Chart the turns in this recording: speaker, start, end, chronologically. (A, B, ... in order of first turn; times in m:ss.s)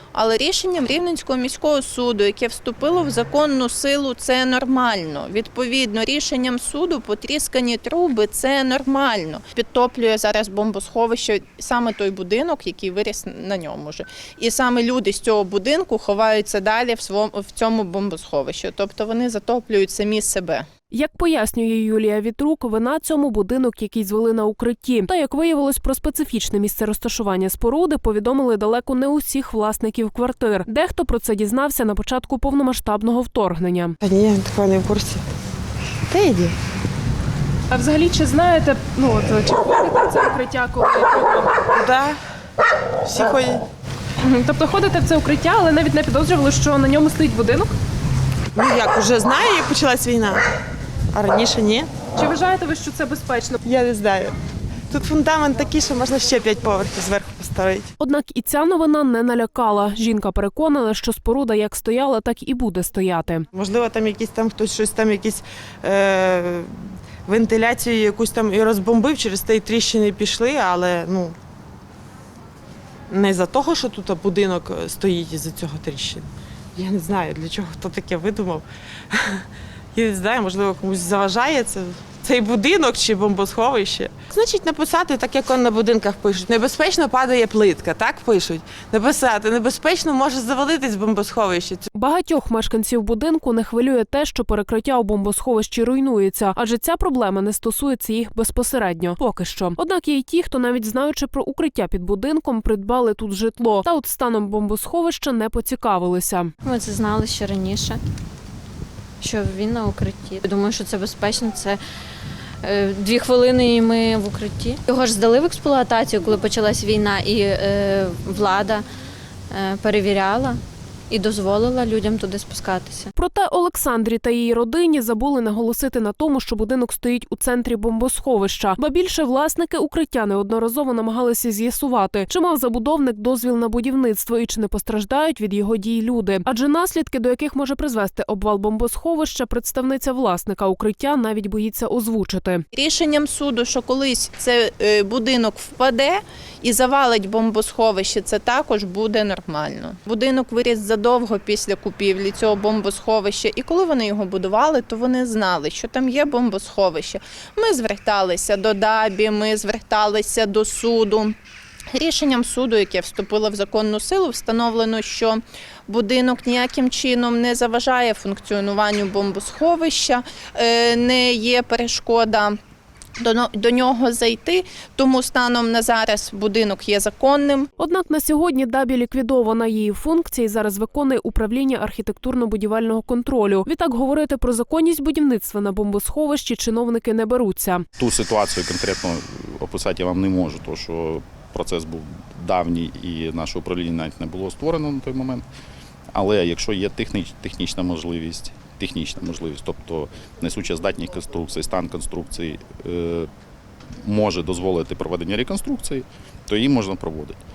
0:00.1-0:20.6 A
0:20.9-0:34.0 B
0:34.0-0:35.2 C
0:36.1-0:36.6 C
0:37.7-0:41.6 B
0:41.7-0:42.2 C
0:43.0-0:43.6 C
0:44.2-0:47.7 B
0:48.6-0:50.4 C
0:51.1-0:51.9 C
0:52.2-0:53.6 B
0:53.6-0:54.3 C
0:54.9-0:57.9 C
0:58.0-1:03.4 B
1:03.5-1:11.4 C
1:13.1-1:31.8 C
1:31.9-1:46.5 B
1:46.6-1:48.0 D
1:49.2-1:51.8 D
1:52.6-1:58.8 D
1:59.5-2:03.1 D
2:03.2-2:22.6 B
2:22.7-2:41.4 A
2:41.9-2:52.6 A
2:53.2-2:57.7 A
2:57.8-3:07.8 B
3:08.0-3:15.4 E
3:16.1-3:23.3 E
3:24.0-3:27.4 E